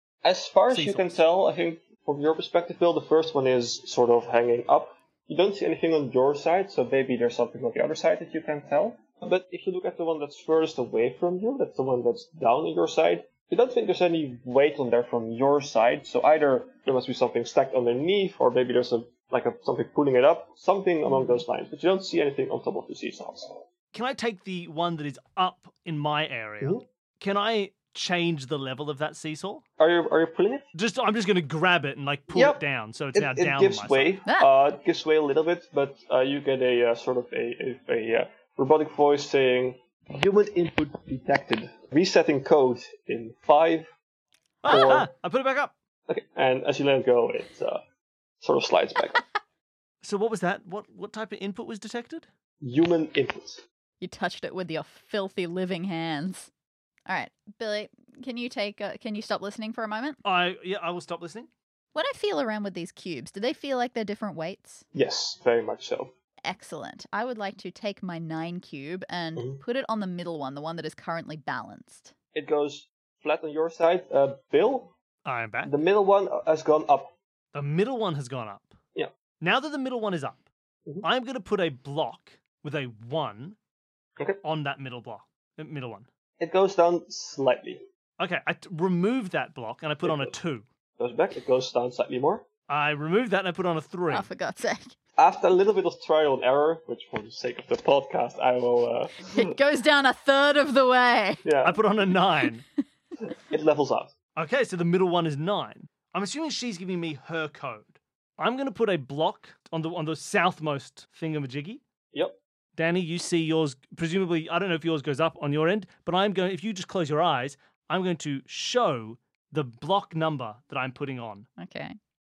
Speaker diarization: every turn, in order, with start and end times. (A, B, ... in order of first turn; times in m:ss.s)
0:00.2-0:23.6 A
0:00.7-0:01.2 B
0:21.1-0:21.4 C
0:23.9-0:29.6 B
0:29.8-0:30.7 A
0:30.7-0:34.2 B
0:32.3-0:32.6 A
0:33.1-0:43.9 A
0:44.6-0:45.7 B
0:44.7-0:45.1 A
0:46.1-0:47.8 A
0:48.4-0:49.2 A
0:50.0-0:52.3 B
0:52.6-0:53.6 A
0:54.0-0:56.5 C
0:57.1-1:00.2 C
1:00.2-1:01.5 B
1:01.9-1:04.8 C
1:04.9-1:06.1 A
1:06.4-1:12.1 C
1:09.4-1:09.6 A
1:12.3-1:14.9 A
1:15.2-1:15.7 B
1:15.6-1:17.1 A
1:17.5-1:18.8 B
1:19.4-1:20.4 B
1:21.0-1:23.6 B
1:24.4-1:26.1 B
1:26.4-1:27.8 A
1:28.2-1:30.6 B
1:30.0-1:30.3 A
1:31.0-1:32.4 A
1:32.7-1:34.2 B
1:34.1-1:34.9 C
1:35.2-1:39.6 A
1:39.2-1:41.4 C
1:41.4-1:41.8 A
1:41.6-1:42.6 B
1:43.4-1:44.1 A
1:44.4-1:51.8 B
1:52.8-2:01.5 B
2:01.6-2:01.9 C